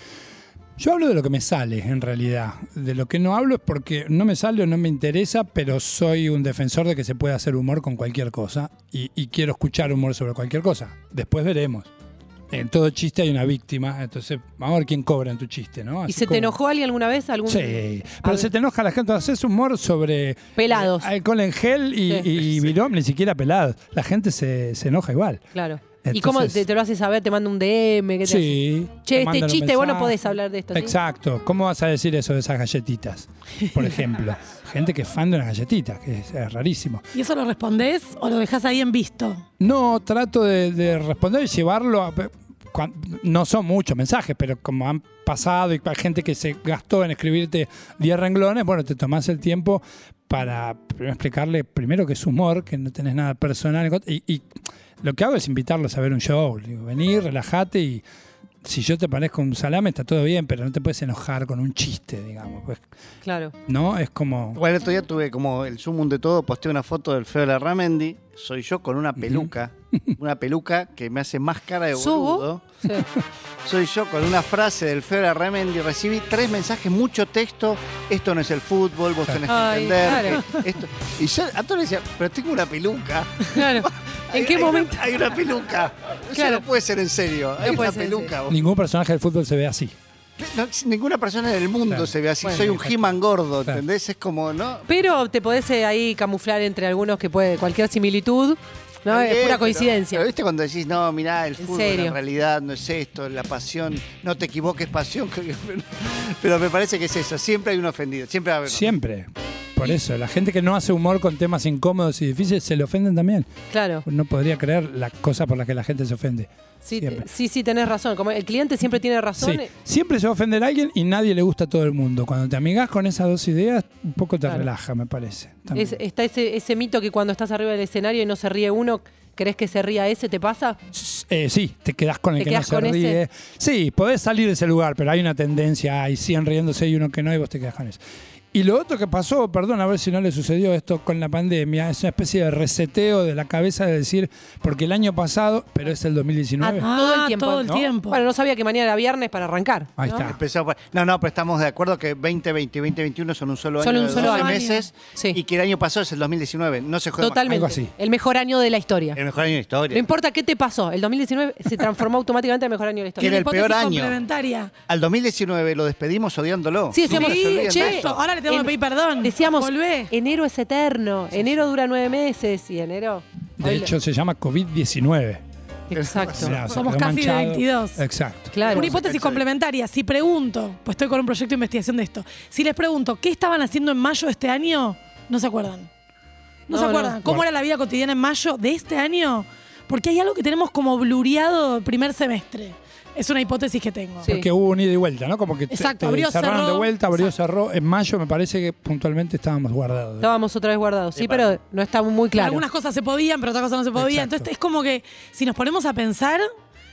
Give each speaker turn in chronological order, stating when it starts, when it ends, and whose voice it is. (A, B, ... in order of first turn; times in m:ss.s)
0:00.8-0:11.9 A
0:12.5-0:16.6 A
0:16.1-0:18.5 B
0:17.5-0:25.4 A
0:20.6-0:21.1 B
0:25.5-0:31.0 B
0:26.0-0:26.6 A
0:28.2-0:30.2 A
0:30.7-0:37.0 A
0:37.1-0:39.4 C
0:39.6-0:54.5 A
0:55.0-0:58.0 A
0:58.6-1:02.8 A
1:03.2-1:03.5 B
1:03.7-1:04.6 A
1:04.6-1:12.7 D
1:09.2-1:10.1 A
1:12.0-1:13.0 B
1:13.6-1:28.6 D
1:19.5-1:20.4 B
1:20.1-1:20.4 A
1:23.5-1:25.0 B
1:26.3-1:26.6 B
1:27.6-1:28.3 B
1:28.5-1:30.0 A
1:30.4-1:34.9 D
1:31.9-1:33.8 A
1:34.9-1:40.2 B
1:39.1-1:48.9 D
1:41.6-1:42.2 B
1:48.7-1:53.5 A
1:53.7-1:54.0 B
1:54.1-1:57.3 A
1:56.8-1:59.7 B
1:59.4-2:06.0 A
2:05.8-2:10.8 B
2:10.9-2:18.0 A
2:12.4-2:13.2 B
2:18.5-2:26.9 A
2:26.6-2:30.3 B
2:26.8-2:28.2 C
2:30.0-2:30.4 A
2:30.2-2:37.6 D
2:33.8-2:35.4 B
2:34.1-2:34.8 C
2:37.2-2:39.2 B
2:37.5-2:37.9 A
2:39.2-2:40.0 D
2:39.9-2:43.4 B
2:43.2-2:44.7 C
2:43.2-2:44.2 D
2:44.9-2:48.2 D
2:46.9-2:53.9 B
2:47.0-2:50.1 C
2:53.6-2:55.4 A
2:55.9-2:56.6 B
2:55.9-2:56.6 D
2:56.3-2:58.6 A
2:56.6-2:58.0 C
2:58.5-2:58.9 B
2:58.6-3:05.9 C
2:58.7-2:59.4 D
3:06.7-3:14.3 C
3:06.7-3:07.1 B
3:14.2-3:20.3 A
3:15.7-3:17.3 C
3:20.2-3:22.6 B
3:21.2-3:21.5 D
3:22.3-3:26.4 C
3:24.0-3:24.5 A